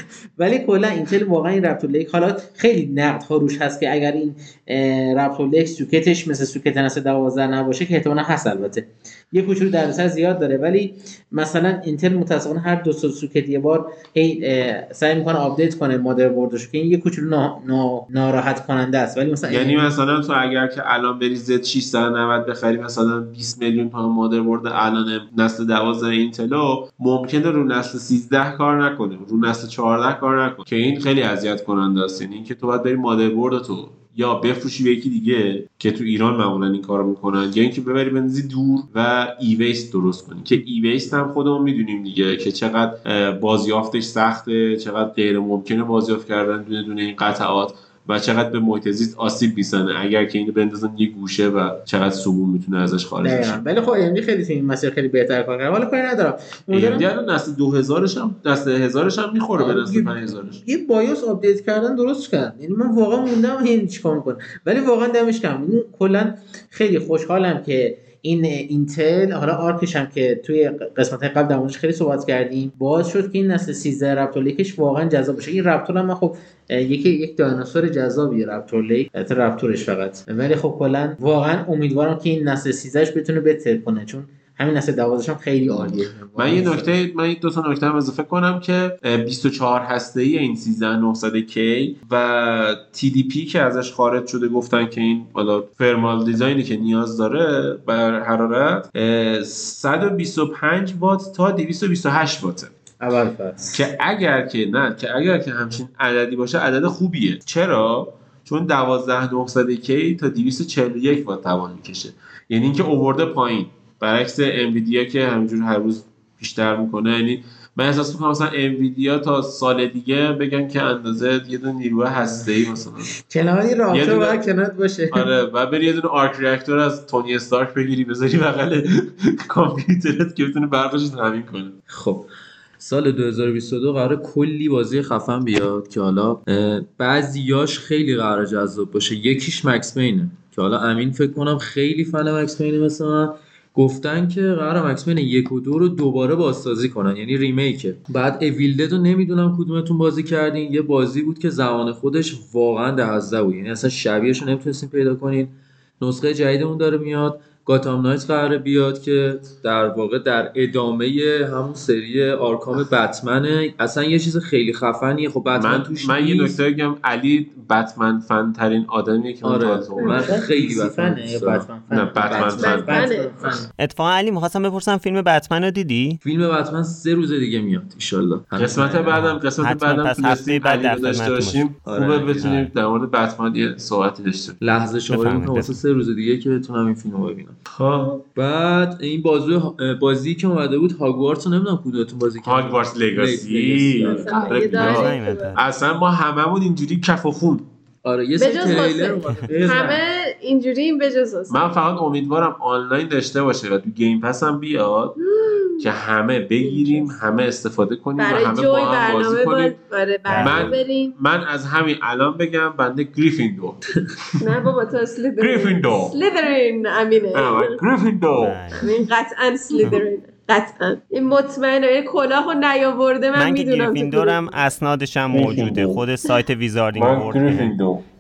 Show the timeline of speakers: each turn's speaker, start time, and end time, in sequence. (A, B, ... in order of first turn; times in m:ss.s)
0:00.4-0:19.9 A
0:19.5-0:53.6 B
0:53.2-0:57.1 A
0:56.7-1:00.6 B
0:59.6-1:26.9 A
1:25.7-1:42.7 B
1:43.0-1:43.9 A
1:43.7-2:03.1 B
2:03.2-2:05.3 A
2:03.9-2:04.4 B
2:05.1-2:11.8 B
2:11.9-2:12.3 C
2:12.8-2:46.6 C
2:45.6-2:50.3 B
2:49.4-2:52.9 C
2:50.0-2:50.3 D
2:50.0-2:53.7 A
2:51.9-2:53.0 B
2:52.6-2:53.7 D
2:53.8-2:56.2 E
2:56.2-2:59.3 C
2:58.6-3:04.6 B
2:59.2-3:01.8 E
3:01.8-3:02.4 C
3:02.4-3:02.7 E
3:04.6-3:07.6 C
3:05.1-3:05.8 E
3:07.7-3:08.2 B
3:08.4-3:14.9 C
3:12.4-3:17.7 B
3:14.0-3:15.6 D
3:14.7-3:15.6 E
3:18.0-3:20.0 C
3:18.4-3:21.6 D
3:19.5-3:20.0 B
3:21.5-3:25.2 B
3:25.2-3:25.9 D
3:25.8-3:29.8 B
3:26.6-3:27.1 D
3:28.2-3:31.2 D
3:30.3-3:33.8 B
3:30.3-3:30.7 E
3:34.4-3:37.7 D
3:35.4-3:36.2 B
3:37.3-3:38.7 B
3:38.4-3:38.8 E
3:38.8-3:44.4 D
3:43.4-3:47.8 E
3:45.3-3:46.0 B
3:46.9-3:48.0 B